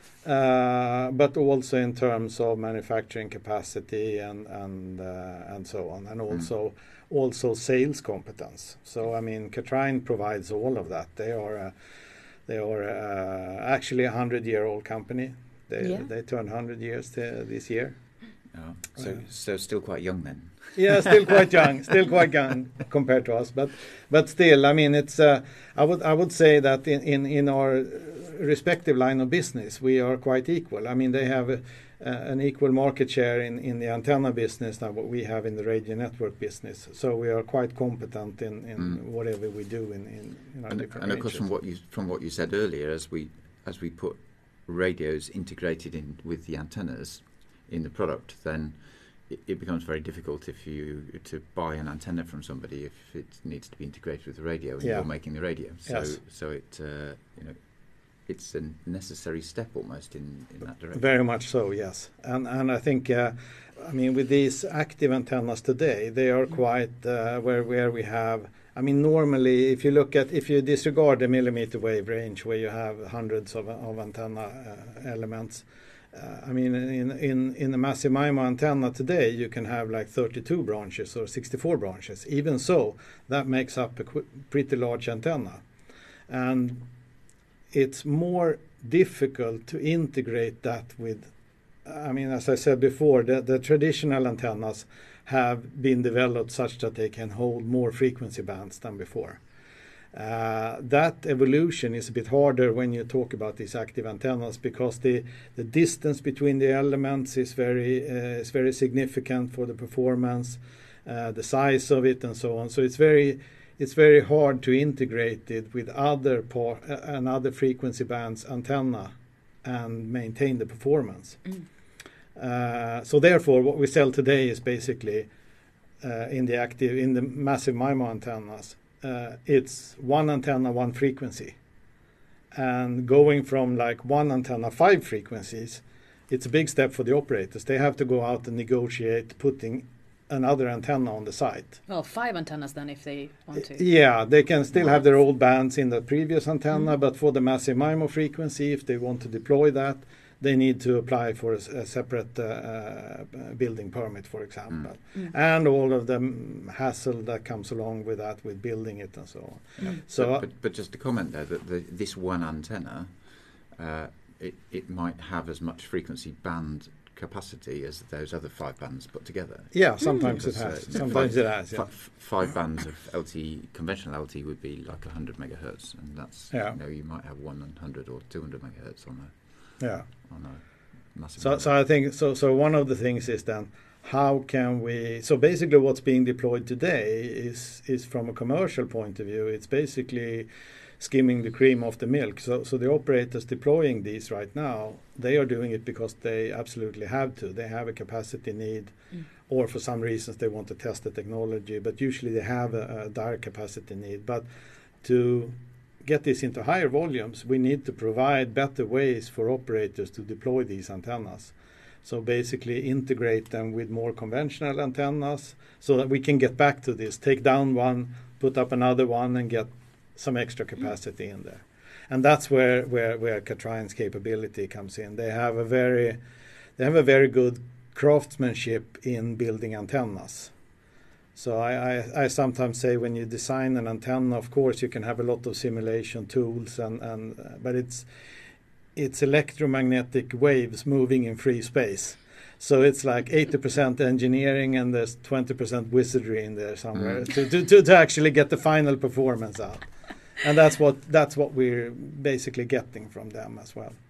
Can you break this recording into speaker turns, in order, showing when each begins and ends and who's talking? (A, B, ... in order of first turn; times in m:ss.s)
0:00.2-0:11.8 A
0:12.5-0:18.0 A
0:15.8-0:16.1 B
0:18.5-0:21.9 C
0:20.8-0:41.4 A
0:40.7-1:01.0 C
0:54.8-0:56.2 A
1:00.9-1:25.6 A
1:26.3-1:26.8 A
1:27.7-1:31.3 A
1:31.8-1:39.4 A
1:40.1-2:01.4 A
2:02.4-2:05.3 A
2:06.0-2:11.6 A
2:12.5-2:21.8 A
2:21.9-2:23.8 B
2:23.7-2:40.5 A
2:39.8-3:01.7 C
2:49.7-2:51.9 A
2:50.0-2:50.3 B
2:56.5-2:56.8 A
2:59.8-3:00.1 A
3:01.4-3:10.5 A
3:11.0-3:24.5 A
3:25.0-3:46.2 A
3:46.8-3:50.5 A
3:51.4-3:58.1 A
3:59.0-4:14.0 A
4:06.9-4:07.4 C